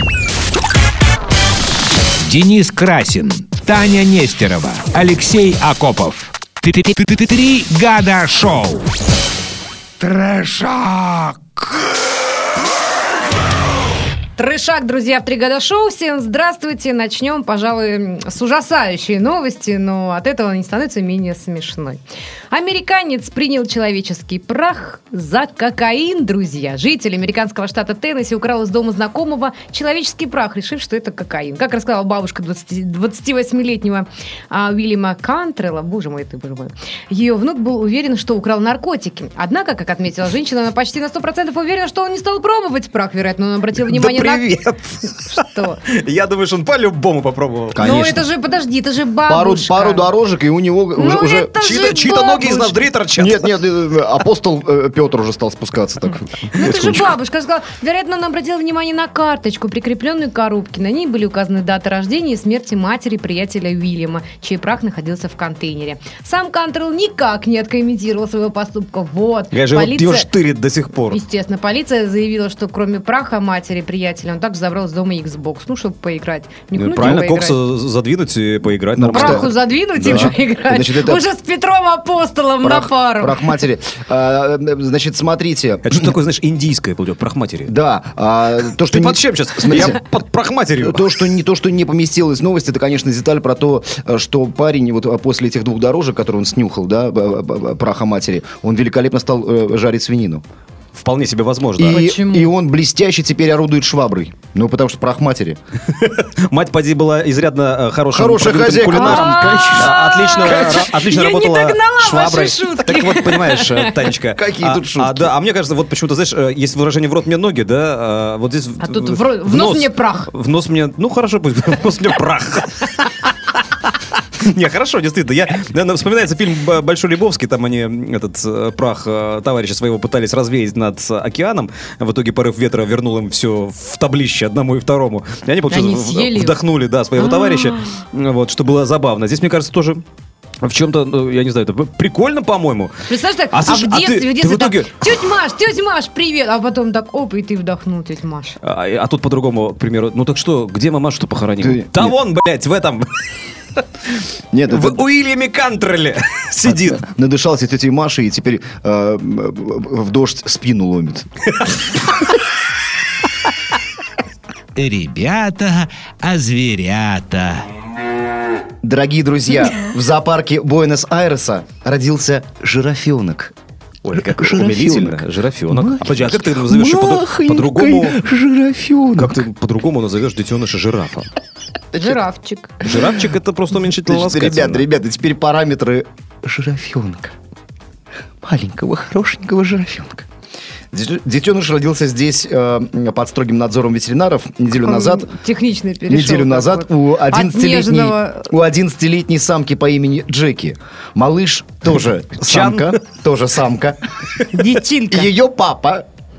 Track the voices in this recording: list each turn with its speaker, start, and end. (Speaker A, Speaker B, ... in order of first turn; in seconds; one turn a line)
Speaker A: 2.2-8.9
Speaker A: 10.0-11.7
Speaker B: 14.4-44.6
Speaker C: 43.8-47.9
Speaker B: 45.3-45.8
Speaker D: 47.7-48.3
Speaker B: 47.8-50.1
Speaker D: 49.3-51.5
Speaker B: 51.0-52.8
Speaker C: 51.6-53.5
Speaker D: 53.2-56.2
Speaker B: 56.5-70.3
Speaker C: 56.5-57.1
Speaker C: 69.5-71.2
Speaker B: 71.1-77.6
Speaker C: 76.8-80.3
Speaker D: 79.0-81.3
Speaker B: 79.1-83.5
Speaker D: 82.6-86.1
Speaker C: 85.8-87.7
Speaker D: 87.7-90.0
Speaker C: 88.9-91.0
Speaker D: 90.8-100.4
Speaker C: 101.0-102.0
Speaker D: 101.8-105.6
Speaker B: 101.8-102.5
Speaker C: 105.9-140.0
Speaker D: 108.1-110.8
Speaker B: 108.9-114.1
Speaker D: 114.3-115.3
Speaker B: 118.8-120.3
Speaker B: 135.7-136.6
Speaker B: 137.2-137.9
Speaker C: 140.6-142.9
Speaker B: 143.1-148.6
Speaker C: 143.5-145.0
Speaker C: 148.6-153.1
Speaker D: 151.6-152.2
Speaker D: 154.5-155.0
Speaker C: 154.7-157.0
Speaker D: 156.6-161.3
Speaker C: 161.6-162.2
Speaker A: 164.8-167.7
Speaker D: 168.8-173.5
Speaker C: 174.0-178.2
Speaker D: 174.2-179.4
Speaker C: 179.2-181.3
Speaker D: 181.9-182.2
Speaker B: 181.9-182.8
Speaker C: 182.8-184.8
Speaker D: 182.8-183.2
Speaker D: 183.9-187.3
Speaker D: 188.4-190.3
Speaker D: 190.9-195.3
Speaker B: 194.8-198.5
Speaker D: 196.1-204.0
Speaker C: 202.4-203.0
Speaker B: 204.5-205.3
Speaker D: 205.1-206.1